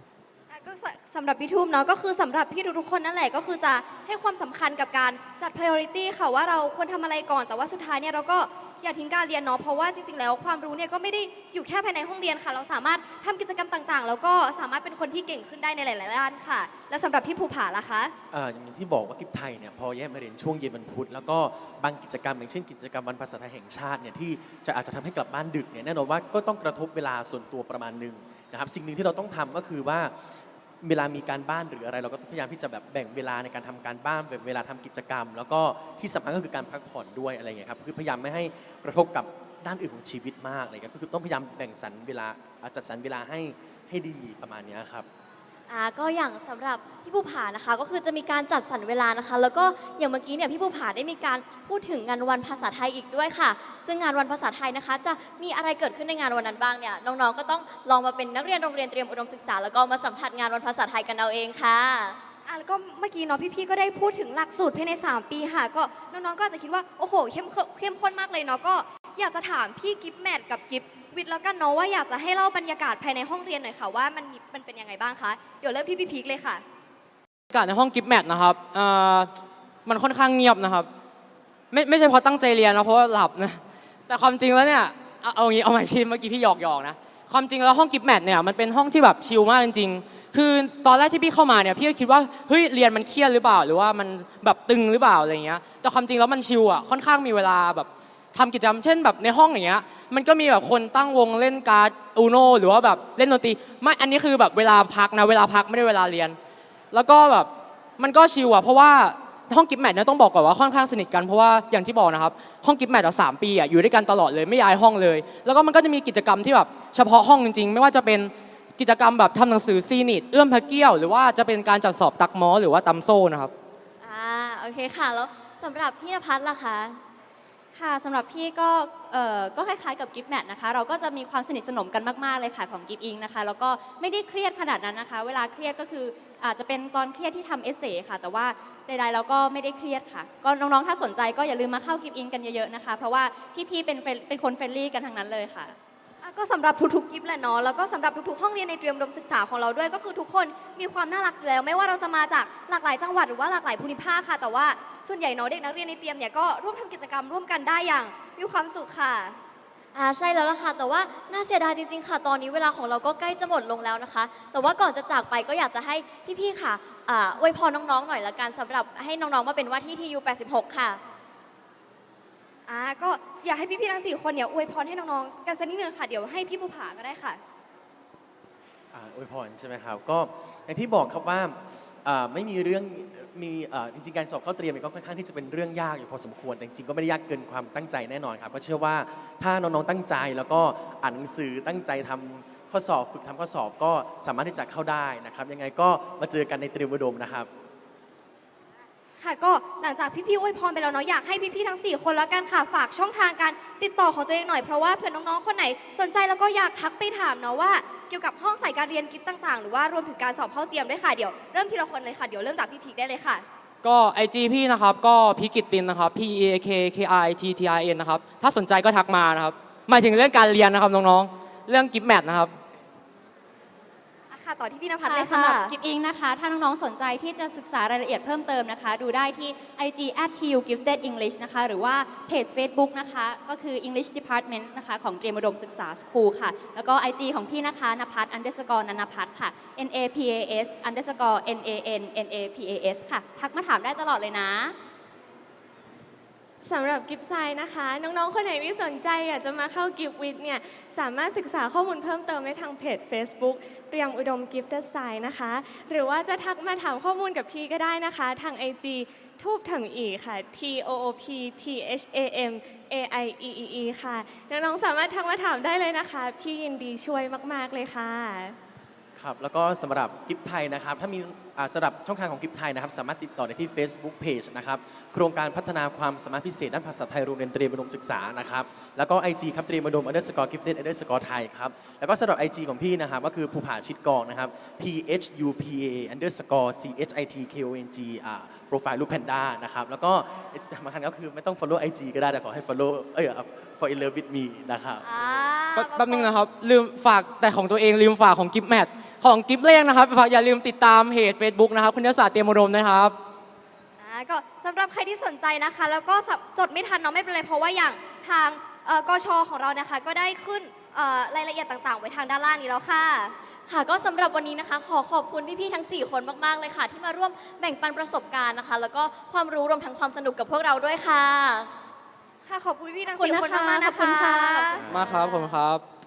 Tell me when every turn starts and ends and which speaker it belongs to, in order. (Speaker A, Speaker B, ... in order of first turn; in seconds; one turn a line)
Speaker A: 0.5-18.1
Speaker B: 18.3-30.1
Speaker B: 30.8-45.1
Speaker C: 45.7-62.2
Speaker A: 62.5-76.6
Speaker D: 77.5-79.3
Speaker D: 79.8-80.9
Speaker D: 81.7-106.4
Speaker D: 106.9-123.5
Speaker C: 124.0-127.0
Speaker E: 127.7-145.8
Speaker A: 146.2-159.4
Speaker C: 159.9-171.0
Speaker A: 172.7-177.4
Speaker B: 178.9-197.5
Speaker A: 199.2-213.4
Speaker D: 213.8-222.5
Speaker A: 224.3-225.7
Speaker E: 225.0-244.7
Speaker F: 246.6-268.6
Speaker B: 269.1-295.5
Speaker A: 295.0-296.3
Speaker D: 295.7-303.1
Speaker A: 304.0-313.3
Speaker C: 313.7-321.7
Speaker A: 322.4-325.4
Speaker E: 323.1-324.8
Speaker B: 324.8-325.0
Speaker D: 324.9-325.8